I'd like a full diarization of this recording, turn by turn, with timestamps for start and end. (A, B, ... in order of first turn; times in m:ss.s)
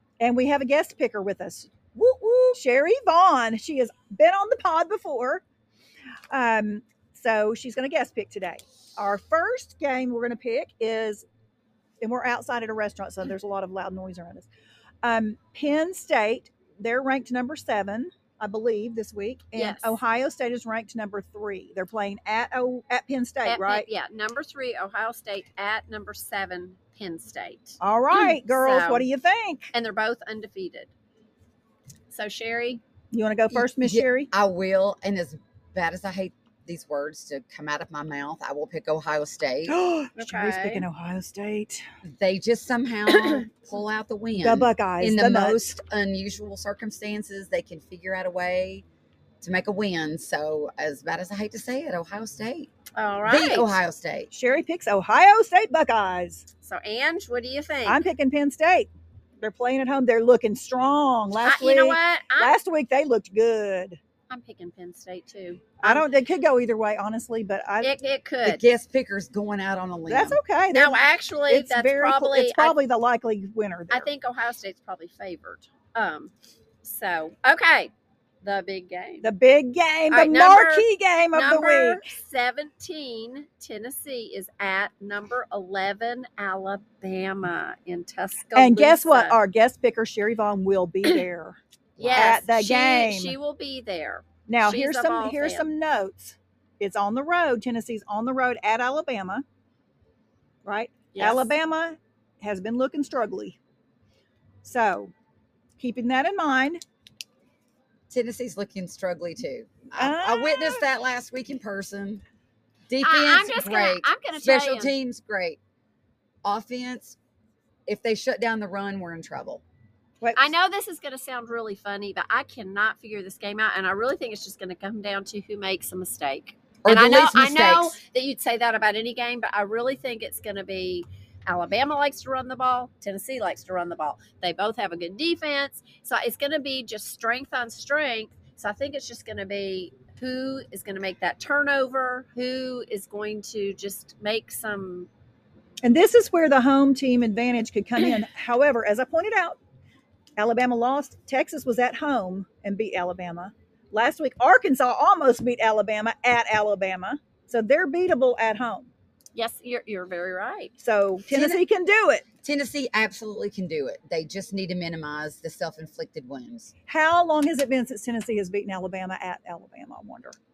0:00.2-0:01.7 A
0:01.9-0:02.6 B
0:02.5-0:05.4 A
0:06.3-0:11.2 A
0:12.0-0:14.5 A
0:15.0-0:23.9 A
0:19.5-0:20.0 C
0:23.4-0:29.1 C
0:27.8-0:29.7 A
0:29.7-0:30.9 C
0:32.1-0:32.8 C
0:33.1-0:34.3 A
0:33.5-0:39.8 B
0:39.7-0:41.8 A
0:40.1-0:40.8 C
0:42.2-0:48.8 B
0:43.1-0:43.4 C
0:44.4-0:45.6 A
0:49.4-0:52.7 B
0:52.9-0:53.7 C
0:53.2-0:54.3 B
0:54.3-0:56.4 A
0:56.6-0:58.0 C
0:57.8-0:58.9 A
0:59.4-1:04.0 A
1:01.4-1:02.6 C
1:04.3-1:06.1 C
1:05.8-1:07.9 A
1:07.8-1:08.6 C
1:08.4-1:10.4 B
1:10.1-1:14.1 A
1:10.7-1:12.8 C
1:13.9-1:16.3 C
1:16.8-1:17.9 C
1:18.4-1:19.3 C
1:19.2-1:22.0 A
1:20.1-1:29.4 C
1:28.5-1:31.6 A
1:32.0-1:32.4 B
1:32.0-1:35.7 C
1:32.1-1:33.4 A
1:34.5-1:39.4 A
1:40.6-1:43.6 A
1:41.1-1:41.5 C
1:44.6-1:45.1 A
1:45.8-1:46.8 A
1:48.1-1:52.2 B
1:50.0-1:50.9 A
1:52.9-1:55.6 B
1:53.0-1:54.9 C
1:56.4-1:57.2 B
1:57.8-1:59.6 B
2:00.2-2:00.5 A
2:00.3-2:25.1 C
2:06.8-2:08.0 B
2:25.8-2:29.6 A
2:30.4-2:38.9 A
2:39.3-2:40.7 C
2:40.8-2:42.2 A
2:41.3-2:41.6 B
2:42.4-2:46.7 B
2:46.9-2:50.3 A